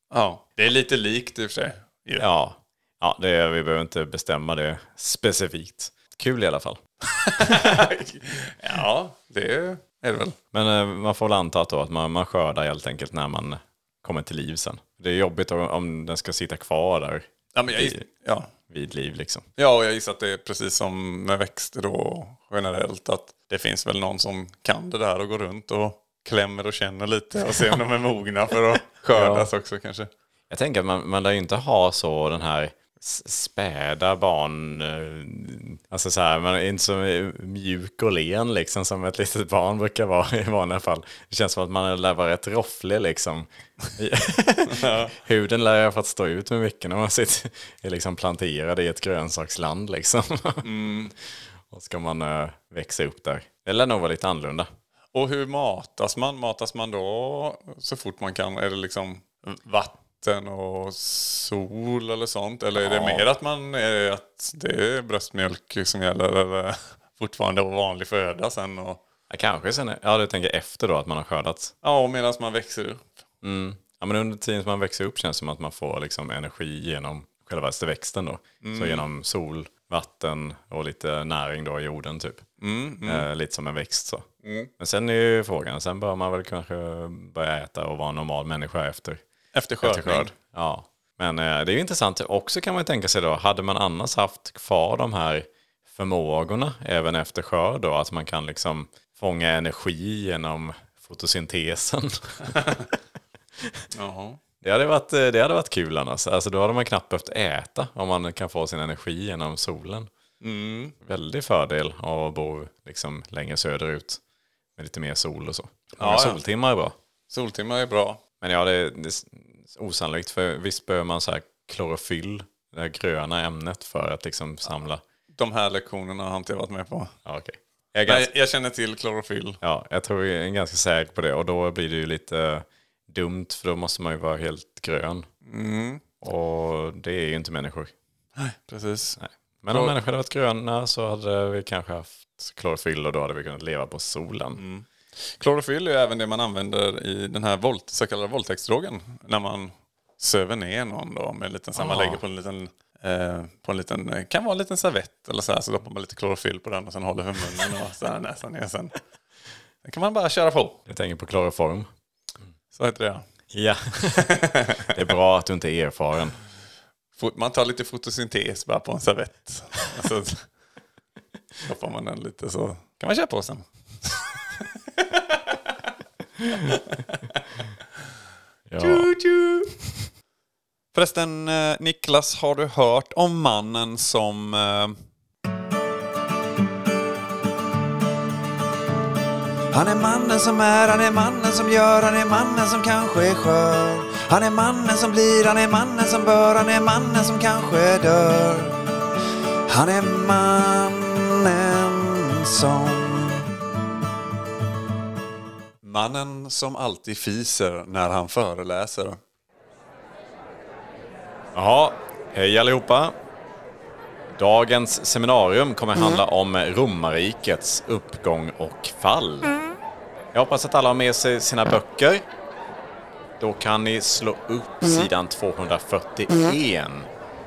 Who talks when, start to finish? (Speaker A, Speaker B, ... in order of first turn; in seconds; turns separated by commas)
Speaker A: 0.1-2.3, Speaker B: 2.2-6.8, Speaker A: 7.2-10.4, Speaker B: 7.4-7.8, Speaker B: 10.5-18.1, Speaker A: 17.5-18.5, Speaker B: 18.7-19.4, Speaker A: 19.6-30.1, Speaker B: 29.1-29.5, Speaker B: 30.5-50.7, Speaker A: 44.7-45.1, Speaker A: 50.6-51.1, Speaker B: 51.7-54.7, Speaker A: 55.1-69.0, Speaker B: 62.8-63.3, Speaker B: 69.3-71.7, Speaker A: 71.8-73.1, Speaker B: 73.4-82.5, Speaker A: 78.6-79.0, Speaker A: 82.6-83.3, Speaker B: 83.0-84.3, Speaker A: 84.4-84.7, Speaker B: 84.8-89.2, Speaker A: 89.5-90.3, Speaker B: 89.8-102.7, Speaker A: 103.9-104.4, Speaker B: 104.6-110.1, Speaker A: 110.4-110.9, Speaker B: 111.0-114.2, Speaker B: 114.8-116.9, Speaker A: 116.0-116.4, Speaker A: 117.3-118.2, Speaker B: 118.4-125.0, Speaker A: 125.3-127.1, Speaker B: 127.2-128.3, Speaker A: 128.1-129.6, Speaker B: 129.6-135.2, Speaker A: 135.4-136.1, Speaker B: 136.2-137.9, Speaker A: 138.3-139.2, Speaker B: 139.2-144.6, Speaker A: 139.7-139.9, Speaker A: 144.6-158.9, Speaker B: 151.8-152.2, Speaker A: 159.8-160.8, Speaker B: 160.8-161.9, Speaker A: 162.7-163.2, Speaker B: 163.5-166.4, Speaker A: 164.1-165.0, Speaker A: 167.2-170.4, Speaker A: 171.6-175.7, Speaker B: 176.4-176.7, Speaker A: 176.6-177.2, Speaker B: 178.7-179.1, Speaker A: 178.8-179.7, Speaker A: 180.9-184.9, Speaker C: 189.7-198.8, Speaker C: 199.7-203.5, Speaker A: 205.8-209.2, Speaker B: 211.5-213.1, Speaker B: 214.3-219.6, Speaker B: 220.3-222.2, Speaker B: 223.4-227.1